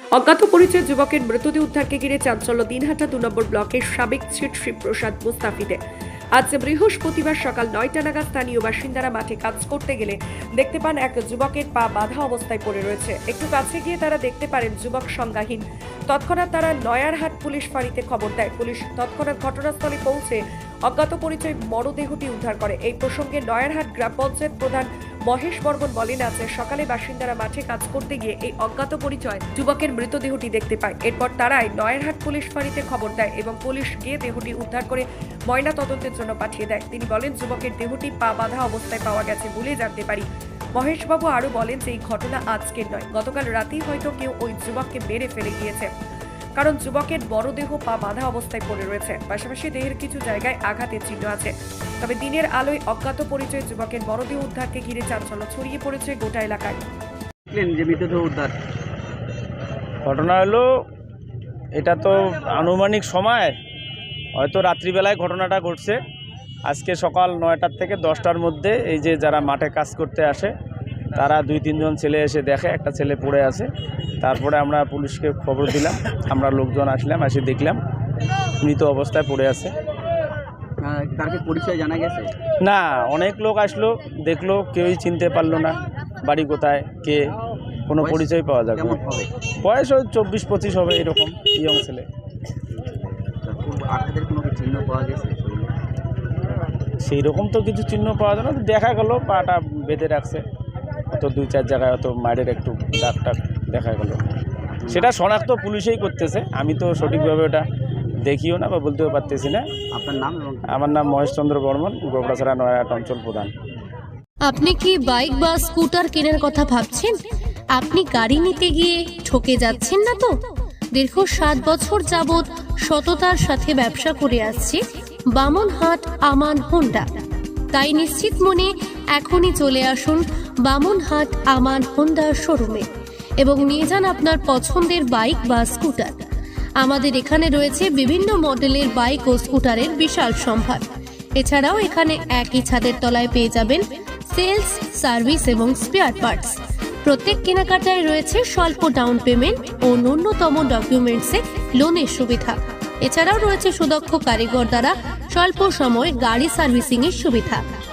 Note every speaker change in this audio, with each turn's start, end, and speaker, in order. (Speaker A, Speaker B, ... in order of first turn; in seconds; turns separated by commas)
Speaker A: 0.1-5.8, Speaker A: 6.4-40.2, Speaker A: 40.8-45.9, Speaker A: 46.6-56.8, Speaker B: 57.5-58.5, Speaker C: 60.0-60.6, Speaker C: 61.7-63.5, Speaker C: 64.4-66.0, Speaker C: 66.7-70.5, Speaker C: 71.2-73.7, Speaker C: 74.2-77.8, Speaker C: 78.6-79.7, Speaker B: 80.8-82.3, Speaker C: 82.6-87.2, Speaker C: 87.9-89.0, Speaker B: 88.0-89.3, Speaker C: 89.6-92.0, Speaker B: 92.7-95.7, Speaker C: 97.0-100.4, Speaker C: 101.1-104.2, Speaker B: 104.7-105.1, Speaker C: 104.9-107.6, Speaker C: 108.2-109.6, Speaker B: 109.9-110.8, Speaker C: 110.7-113.5, Speaker D: 114.5-117.1, Speaker D: 117.7-120.3, Speaker D: 120.9-124.8, Speaker D: 125.3-127.1, Speaker D: 127.7-132.8, Speaker D: 133.4-136.1, Speaker D: 136.8-140.8, Speaker D: 141.4-157.6